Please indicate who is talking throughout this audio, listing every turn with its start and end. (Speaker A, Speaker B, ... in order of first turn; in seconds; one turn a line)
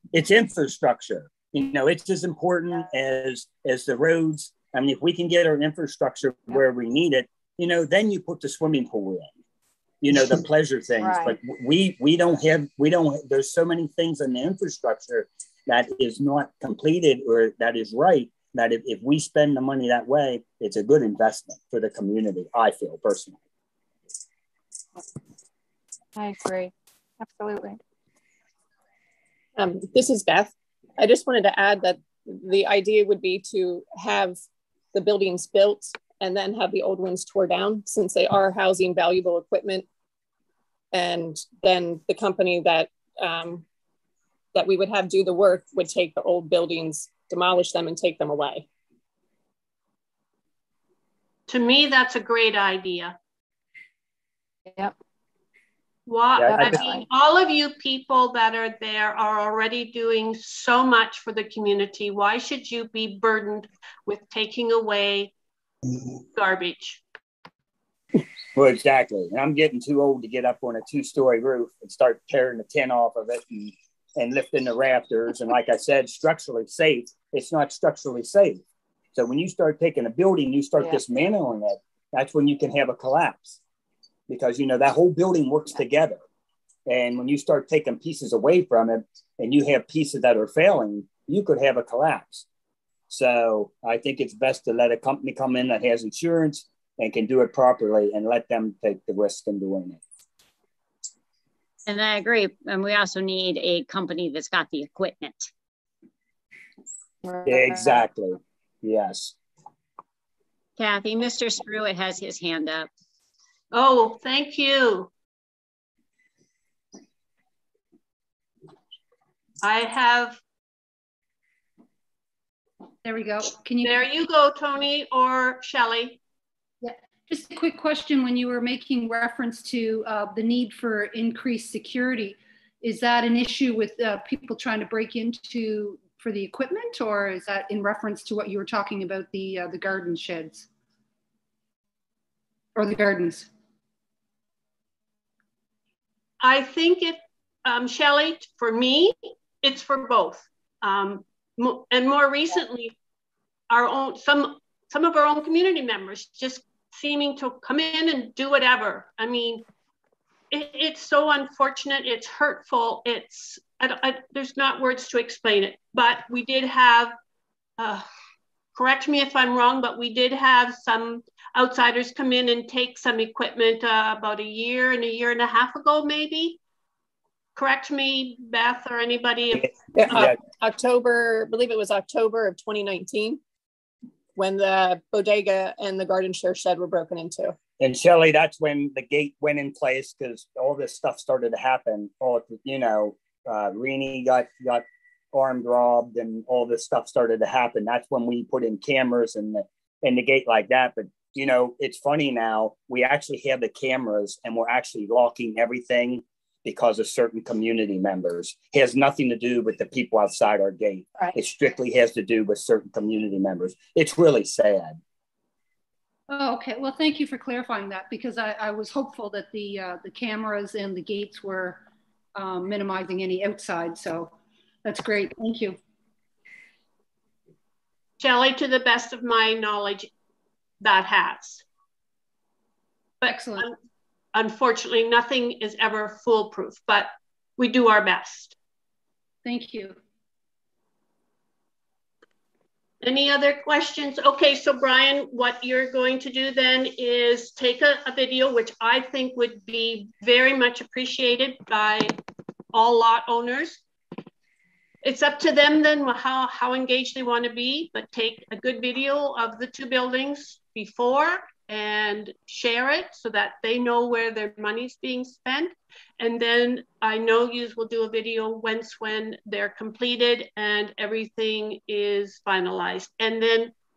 Speaker A: 0.1-9.3
Speaker A: 10.0-23.4
Speaker B: 11.0-11.3
Speaker B: 26.1-27.8
Speaker C: 29.6-34.4
Speaker C: 34.9-39.9
Speaker C: 40.9-43.6
Speaker C: 44.5-48.6
Speaker D: 51.5-53.1
Speaker D: 56.1-65.3
Speaker A: 56.4-56.9
Speaker B: 56.5-57.0
Speaker D: 66.3-67.0
Speaker A: 68.5-78.6
Speaker A: 79.1-83.6
Speaker A: 84.3-86.2
Speaker A: 86.9-92.5
Speaker A: 93.1-100.0
Speaker E: 101.9-105.5
Speaker B: 107.2-107.9
Speaker A: 107.4-109.3
Speaker E: 110.8-112.9
Speaker D: 113.7-115.1
Speaker D: 119.6-120.4
Speaker F: 123.0-124.0
Speaker D: 123.8-126.2
Speaker F: 126.8-140.7
Speaker F: 142.8-143.5
Speaker D: 146.4-152.9
Speaker D: 153.7-159.6
Speaker D: 160.5-167.1
Speaker D: 167.8-168.0
Speaker D: 168.8-176.6
Speaker D: 177.6-180.2
Speaker A: 179.6-180.3
Speaker C: 179.9-183.4
Speaker C: 184.3-187.5
Speaker A: 187.8-215.0
Speaker F: 216.3-221.8
Speaker F: 222.3-225.8
Speaker D: 228.2-230.1
Speaker D: 230.8-231.6
Speaker F: 233.2-233.7
Speaker D: 234.3-238.5
Speaker F: 239.4-240.0
Speaker D: 243.0-252.2
Speaker D: 252.7-253.8
Speaker D: 255.0-273.7